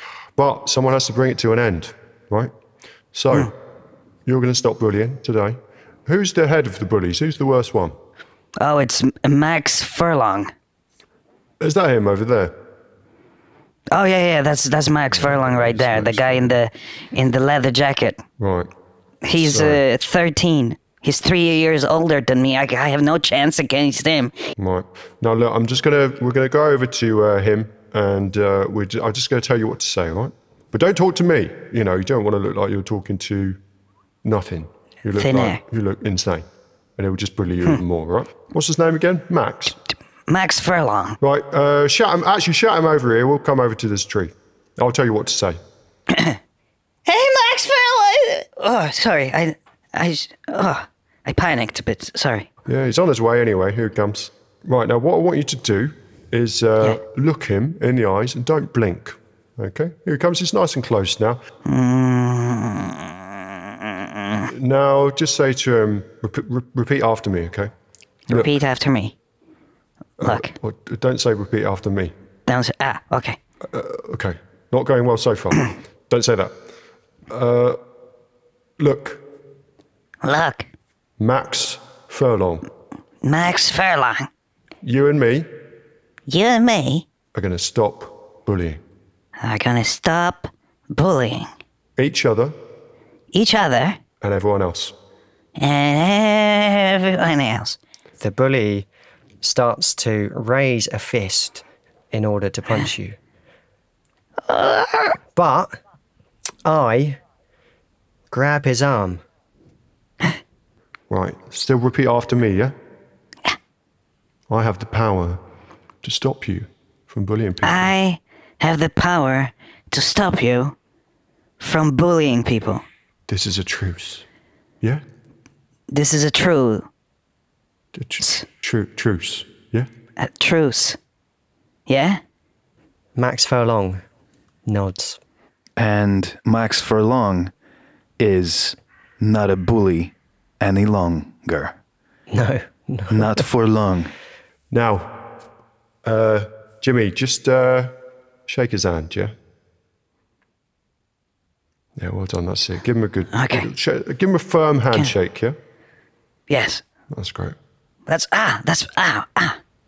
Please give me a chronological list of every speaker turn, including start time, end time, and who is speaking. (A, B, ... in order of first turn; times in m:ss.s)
0:00.4-0:02.5 A
0:03.1-0:03.5 A
0:04.3-0:08.0 A
0:08.6-0:10.5 B
0:11.6-0:12.6 A
0:13.9-0:18.2 B
0:15.1-0:16.6 A
0:18.4-0:18.7 A
0:19.2-0:24.5 B
0:19.4-0:19.8 A
0:24.6-0:33.6 A
0:34.2-0:36.4 A
0:35.2-0:35.6 B
0:37.0-0:39.8 A
0:40.3-0:41.2 B
0:41.2-0:45.6 A
0:46.1-0:46.4 B
0:47.1-0:52.5 B
0:52.7-1:01.4 A
1:01.6-1:04.5 B
1:04.5-1:07.7 A
1:08.3-1:09.2 B
1:10.2-1:12.1 A
1:10.2-1:10.5 B
1:12.5-1:13.4 B
1:13.7-1:16.6 A
1:17.3-1:17.8 A
1:18.8-1:19.2 A
1:20.2-1:20.7 B
1:21.2-1:22.7 A
1:23.2-1:24.3 B
1:24.8-1:25.5 A
1:26.3-1:27.0 B
1:27.4-1:28.8 A
1:29.4-1:31.5 B
1:32.0-1:32.6 A
1:33.3-1:34.0 B
1:34.2-1:34.9 A
1:35.6-1:37.8 B
1:38.2-1:38.9 C
1:39.4-1:43.2 C
1:44.5-1:45.1 B
1:45.3-1:45.8 C
1:46.6-1:47.2 C
1:48.3-1:49.2 C
1:51.1-1:52.8 A
1:54.5-1:55.4 A
1:56.0-1:57.9 A
1:57.6-2:00.8 B
2:01.6-2:02.8 B
2:03.3-2:04.2 A
2:05.9-2:06.9 B
2:07.9-2:09.9 A
2:10.2-2:11.0 B
2:11.9-2:12.2 B
2:13.2-2:14.0 C
2:14.7-2:15.2 C
2:15.8-2:17.5 D
2:18.2-2:21.8 D
2:22.3-2:23.4 C
2:23.1-2:24.1 D
2:24.7-2:25.3 A
2:26.0-2:28.0 A
2:28.5-2:29.3 A
2:32.0-2:35.6 A
2:33.3-2:33.7 B
2:36.5-2:36.8 B
2:37.1-2:37.6 A
2:38.1-2:39.6 B